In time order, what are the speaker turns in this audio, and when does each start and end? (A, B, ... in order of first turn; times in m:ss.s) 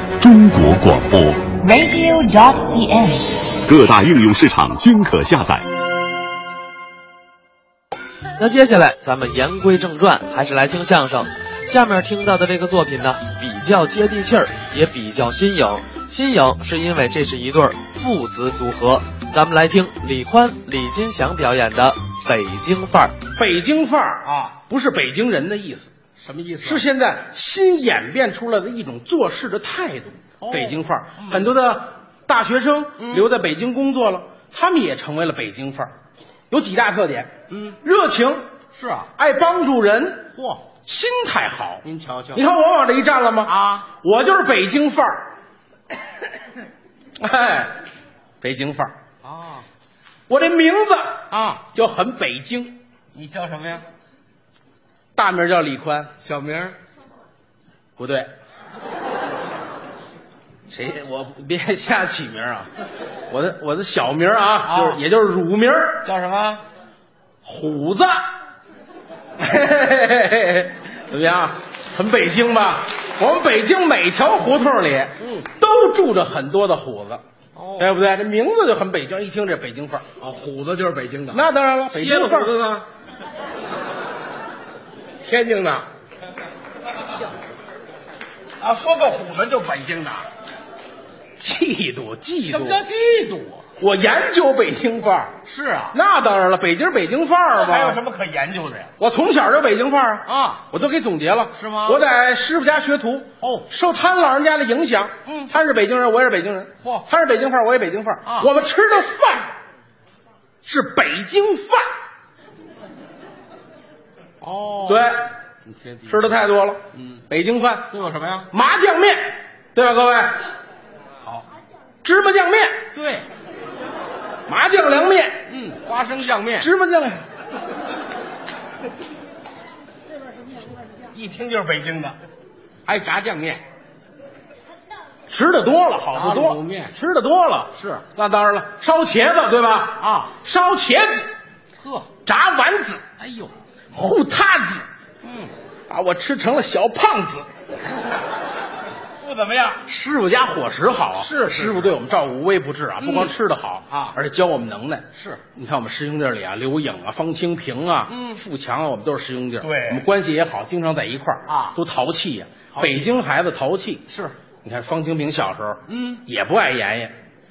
0:00.2-0:01.5 A
0:01.6-0:03.6 B
0:03.6-0:05.7 A
0:08.4-0:23.2 C
0:23.4-0:25.9 D
0:24.2-0:24.6 E
0:26.2-0:26.8 E
0:26.6-0:35.9 D
0:30.4-0:31.6 E
0:33.0-0:33.3 E
0:36.5-0:37.3 D
0:37.5-0:37.8 E
0:37.8-0:38.5 D
0:38.8-0:39.1 E
0:39.2-0:40.3 D
0:40.4-0:40.6 E
0:40.8-0:45.3 D
0:41.8-0:42.4 E
0:43.4-0:43.9 E
0:47.2-0:47.8 D
0:48.4-0:48.9 D
0:49.2-0:49.7 E
0:50.3-0:52.8 D
0:51.3-0:51.6 E
0:53.1-0:53.8 E
0:55.2-0:56.2 D
0:56.2-0:56.8 E
0:58.0-0:58.3 D
1:00.7-1:02.7 D
1:03.3-1:06.0 D
1:04.7-1:05.0 E
1:06.0-1:06.6 E
1:07.4-1:08.2 D
1:09.4-1:17.2 D
1:15.2-1:15.5 E
1:17.6-1:17.9 E
1:17.8-1:20.1 D
1:20.2-1:22.9 E
1:21.3-1:22.6 D
1:25.2-1:25.9 E
1:28.6-1:30.3 E
1:31.4-1:32.8 D
1:32.4-1:33.7 E
1:33.8-1:35.4 D
1:35.4-1:36.0 E
1:35.9-1:38.0 D
1:37.5-1:38.9 E
1:39.0-1:49.5 D
1:40.3-1:40.6 E
1:41.6-1:42.0 E
1:43.4-1:43.7 E
1:45.2-1:45.5 E
1:46.8-1:47.1 E
1:48.2-1:48.5 E
1:50.6-1:51.9 D
1:54.4-1:56.4 E
1:54.9-1:55.3 D
1:56.1-1:57.9 D
1:56.9-1:57.2 E
1:57.9-1:58.5 E
1:58.5-2:00.4 D
2:02.0-2:02.8 D
2:02.9-2:03.3 E
2:04.5-2:05.4 D
2:05.5-2:06.7 E
2:06.6-2:07.2 D
2:11.1-2:12.2 E
2:12.9-2:13.6 E
2:15.3-2:21.3 D
2:16.1-2:17.0 E
2:17.7-2:18.0 E
2:20.0-2:20.3 E
2:21.8-2:22.1 E
2:22.2-2:23.0 D
2:23.2-2:23.5 E
2:23.9-2:24.9 D
2:25.2-2:25.5 E
2:25.9-2:27.5 D
2:29.2-2:29.8 E
2:29.8-2:44.0 D
2:31.2-2:32.0 E
2:33.0-2:33.3 E
2:33.9-2:34.2 E
2:35.1-2:35.4 E
2:38.1-2:38.4 E
2:39.6-2:40.1 E
2:41.5-2:41.8 E
2:42.7-2:43.1 E
2:44.1-2:44.4 E
2:44.6-2:47.1 D
2:45.9-2:46.2 E